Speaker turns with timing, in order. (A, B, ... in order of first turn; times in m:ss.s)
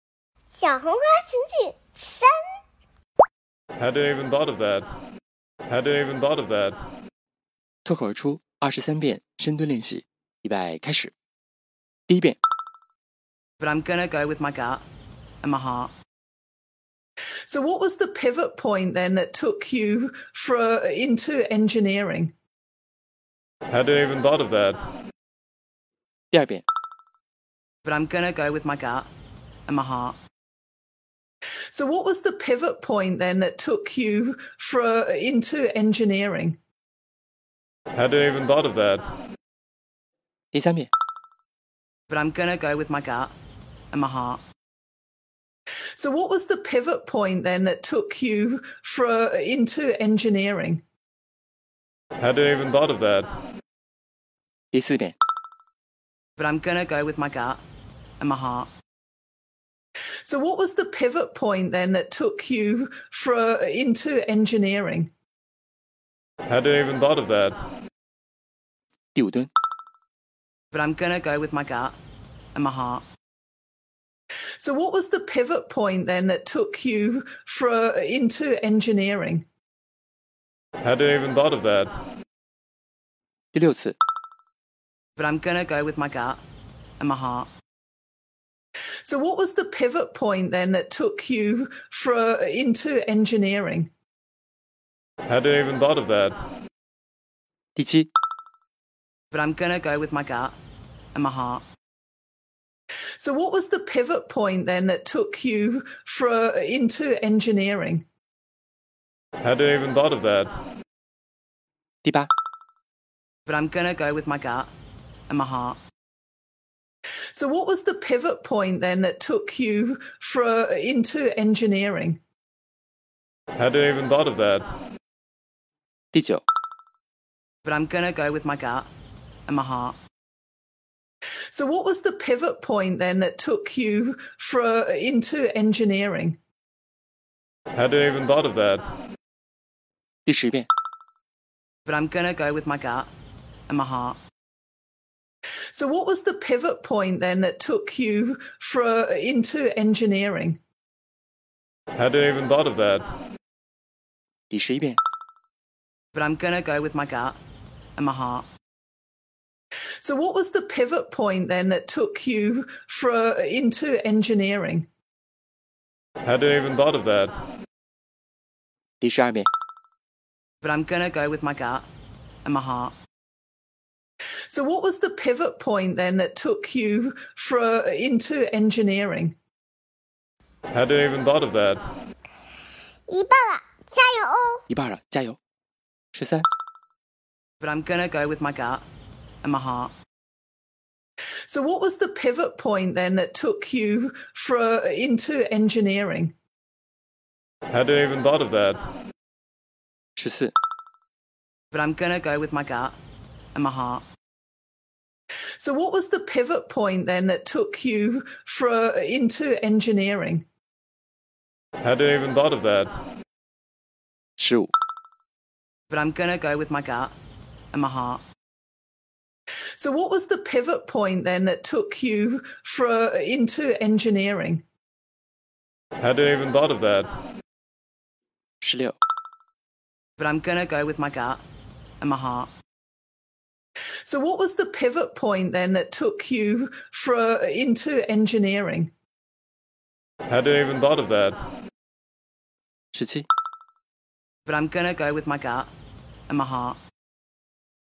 0:00.5-0:02.3 A
0:03.8-0:04.9 B
0:05.7-0:06.8 B
0:07.8-0:11.1 C
0:12.1-0:12.4 C
0:13.6-0:14.8 D
0:15.4-0:15.9 D
0:17.5-0:22.3 E
0:23.7-0:24.8 B
0:26.3-0:26.6 C
0:27.8-0:29.1 D
0:29.7-0:30.2 D
0:31.7-0:36.6 E
0:37.9-0:39.1 B
0:40.5-0:40.9 C
0:42.1-0:43.3 D
0:43.9-0:44.4 D
0:46.0-0:50.8 E
0:52.2-0:53.3 B
0:54.7-0:55.2 C
0:56.4-0:57.6 D
0:58.2-0:58.7 D
1:00.2-1:05.1 E
1:06.4-1:07.6 B
1:09.2-1:09.5 C
1:10.7-1:12.0 D
1:12.6-1:13.0 D
1:14.6-1:19.5 E
1:20.8-1:22.0 B
1:23.5-1:24.0 C
1:25.2-1:26.4 D
1:27.0-1:27.5 D
1:29.0-1:33.9 E
1:35.2-1:36.4 B
1:37.8-1:38.1 C
1:39.3-1:40.6 D
1:41.2-1:41.6 D
1:43.2-1:48.0 E
1:49.4-1:50.5 B
1:52.0-1:52.3 C
1:53.4-1:54.7 D
1:55.3-1:55.8 D
1:57.3-2:02.2 E
2:03.5-2:04.7 B
2:06.1-2:06.4 C
2:07.6-2:08.9 D
2:09.5-2:10.0 D
2:11.5-2:16.4 E
2:17.7-2:18.9 B
2:20.3-2:20.7 C
2:21.9-2:23.1 D
2:23.7-2:24.2 D
2:25.7-2:30.6 E
2:31.9-2:33.1 B
2:34.5-2:35.0 C
2:36.2-2:37.4 D
2:38.0-2:38.4 D
2:40.0-2:44.9 E
2:46.2-2:47.4 B
2:49.0-2:49.5 C
2:50.6-2:51.9 D
2:52.4-2:52.9 D
2:54.5-2:59.3 E
3:00.7-3:01.8 B
3:03.1-3:04.6 A
3:04.7-3:05.4 C
3:06.1-3:06.4 C
3:07.6-3:08.8 D
3:09.4-3:09.9 D
3:11.4-3:16.3 E
3:17.7-3:18.8 B
3:20.2-3:20.5 C
3:21.7-3:23.0 D
3:23.6-3:24.0 D
3:25.6-3:30.4 E
3:31.8-3:32.9 B
3:34.4-3:34.7 C
3:35.9-3:37.2 D
3:37.7-3:38.2 D
3:39.8-3:44.6 E
3:46.0-3:47.1 B
3:48.6-3:49.0 C
3:50.2-3:51.4 D
3:52.0-3:52.5 D
3:54.0-3:58.9 E
4:00.3-4:01.4 B
4:02.9-4:03.3 C
4:04.5-4:05.7 D
4:06.3-4:06.8 D